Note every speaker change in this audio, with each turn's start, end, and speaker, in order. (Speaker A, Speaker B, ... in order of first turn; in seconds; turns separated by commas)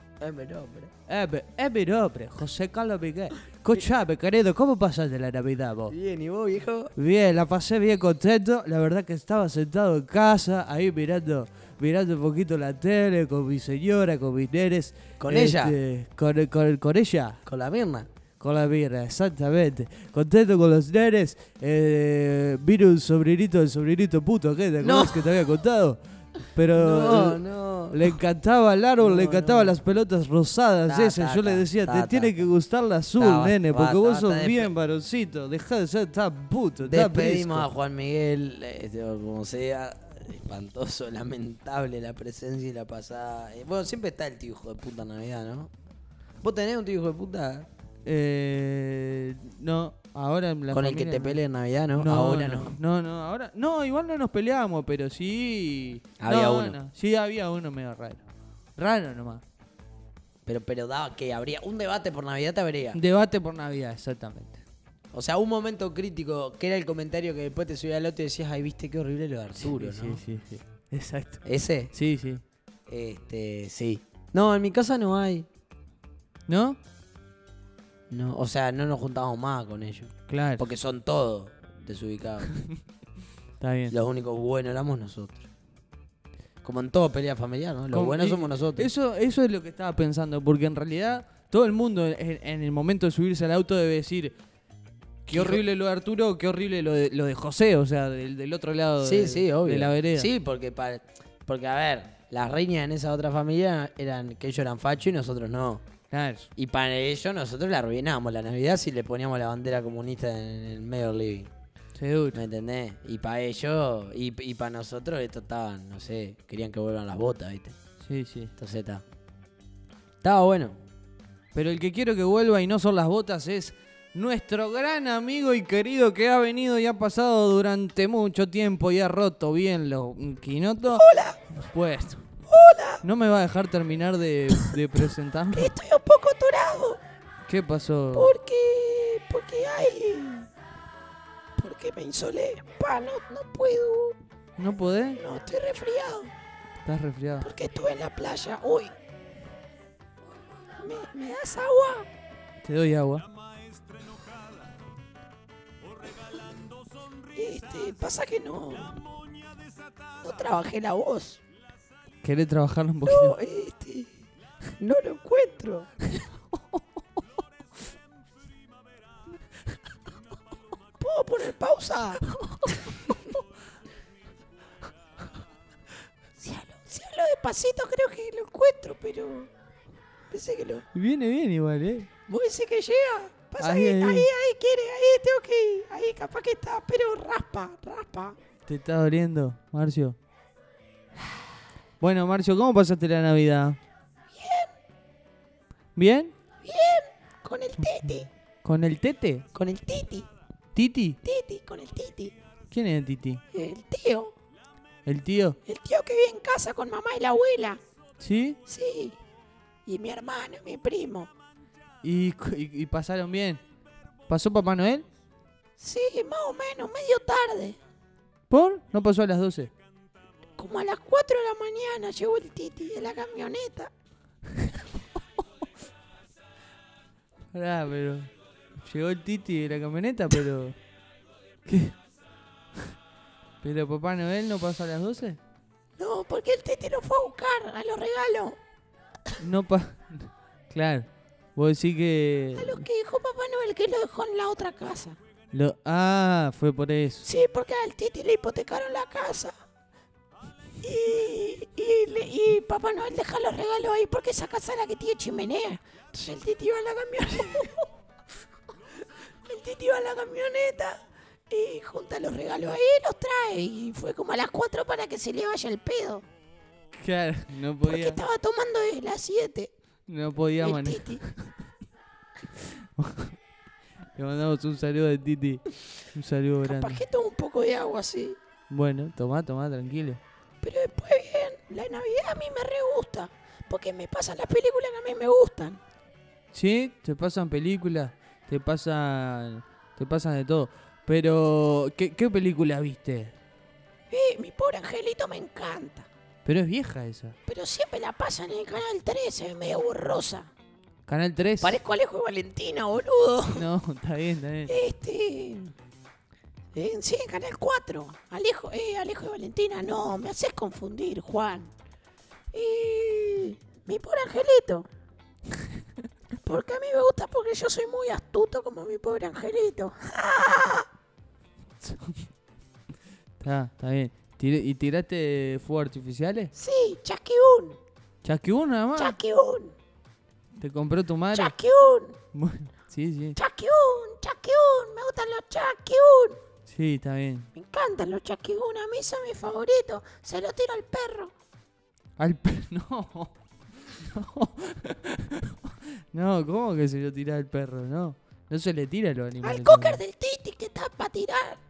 Speaker A: 0.2-0.9, Speaker B: 1.1-5.9, Speaker A: 5.9-6.9, Speaker B: 7.0-17.4, Speaker A: 15.2-15.8, Speaker A: 17.4-18.1, Speaker B: 18.4-27.4, Speaker A: 24.8-25.3, Speaker A: 26.7-28.1, Speaker B: 27.9-37.7, Speaker A: 29.0-29.8, Speaker A: 30.9-32.3, Speaker A: 33.2-34.7, Speaker A: 36.8-45.7, Speaker A: 46.4-47.7, Speaker B: 48.0-51.4, Speaker A: 50.7-52.7, Speaker B: 52.0-58.2, Speaker A: 56.2-56.8, Speaker B: 58.8-59.4, Speaker A: 60.5-63.0, Speaker B: 62.9-64.6, Speaker A: 65.1-70.2, Speaker B: 69.6-72.4, Speaker A: 71.4-71.9, Speaker A: 72.9-75.5, Speaker B: 76.5-76.8, Speaker A: 78.1-82.6, Speaker B: 80.3-80.7, Speaker B: 83.6-83.9, Speaker A: 83.9-85.5, Speaker A: 86.6-88.9, Speaker B: 87.9-94.3, Speaker B: 95.2-100.3, Speaker A: 95.3-95.6, Speaker A: 99.0-105.8, Speaker B: 106.1-106.5, Speaker A: 106.5-111.5, Speaker B: 112.0-112.4, Speaker A: 112.3-117.7, Speaker B: 118.0-118.5, Speaker A: 118.6-119.0, Speaker A: 120.2-120.8, Speaker B: 121.5-132.2, Speaker C: 130.9-131.4, Speaker C: 132.5-133.0, Speaker B: 133.0-135.7, Speaker C: 135.5-137.0, Speaker B: 137.5-138.3, Speaker C: 138.1-140.5, Speaker C: 141.6-144.2, Speaker B: 144.6-145.2, Speaker C: 145.2-146.3, Speaker B: 146.8-147.5, Speaker C: 147.4-148.9, Speaker C: 150.8-152.1, Speaker B: 152.6-153.2, Speaker C: 157.3-159.0, Speaker C: 160.2-161.4, Speaker B: 162.2-163.3, Speaker C: 163.1-164.1, Speaker C: 164.8-165.9, Speaker C: 171.0-172.3, Speaker C: 176.4-179.5, Speaker C: 180.3-180.8, Speaker B: 180.9-182.1, Speaker C: 182.3-188.3, Speaker B: 183.6-184.3, Speaker B: 188.7-190.2, Speaker B: 192.0-193.8, Speaker C: 194.3-194.7, Speaker B: 195.9-196.3, Speaker C: 196.6-198.3, Speaker B: 198.6-199.4, Speaker C: 199.5-200.3, Speaker B: 200.7-201.2, Speaker C: 201.2-202.3, Speaker B: 202.7-203.4, Speaker C: 203.5-204.3, Speaker B: 205.1-205.6, Speaker C: 205.7-207.8, Speaker B: 208.2-208.6, Speaker C: 208.7-209.2, Speaker C: 209.8-211.3, Speaker B: 212.0-213.6, Speaker B: 214.3-215.1, Speaker C: 215.8-217.8, Speaker B: 218.5-219.7, Speaker C: 220.6-223.9, Speaker B: 227.5-230.8, Speaker B: 231.7-231.9, Speaker B: 233.6-235.4, Speaker C: 236.0-238.6, Speaker B: 239.4-242.8, Speaker C: 242.6-245.2, Speaker B: 245.5-247.3, Speaker C: 247.2-249.5, Speaker C: 250.8-257.9, Speaker C: 259.4-266.2, Speaker B: 266.9-268.2, Speaker C: 267.8-269.7, Speaker B: 270.1-271.4, Speaker C: 270.6-271.2, Speaker B: 273.0-273.4, Speaker B: 274.1-277.0, Speaker C: 276.6-278.4, Speaker B: 278.7-280.2, Speaker C: 280.6-285.8, Speaker B: 286.5-293.3, Speaker C: 294.1-296.1, Speaker B: 296.4-297.4, Speaker C: 297.5-300.5, Speaker B: 301.1-301.8, Speaker C: 301.6-303.6, Speaker B: 303.5-304.7, Speaker C: 304.7-305.7, Speaker C: 306.7-311.7, Speaker C: 312.5-314.9, Speaker C: 316.4-320.9, Speaker B: 321.8-322.1, Speaker B: 323.4-326.5, Speaker C: 326.6-327.8, Speaker B: 328.2-329.1, Speaker C: 328.9-329.7, Speaker B: 330.6-331.5, Speaker C: 331.3-332.2, Speaker B: 332.3-333.4, Speaker C: 333.4-336.4, Speaker B: 336.7-337.5, Speaker C: 337.5-341.3, Speaker B: 342.2-343.3, Speaker B: 343.9-345.6, Speaker B: 346.1-350.0, Speaker C: 349.4-351.6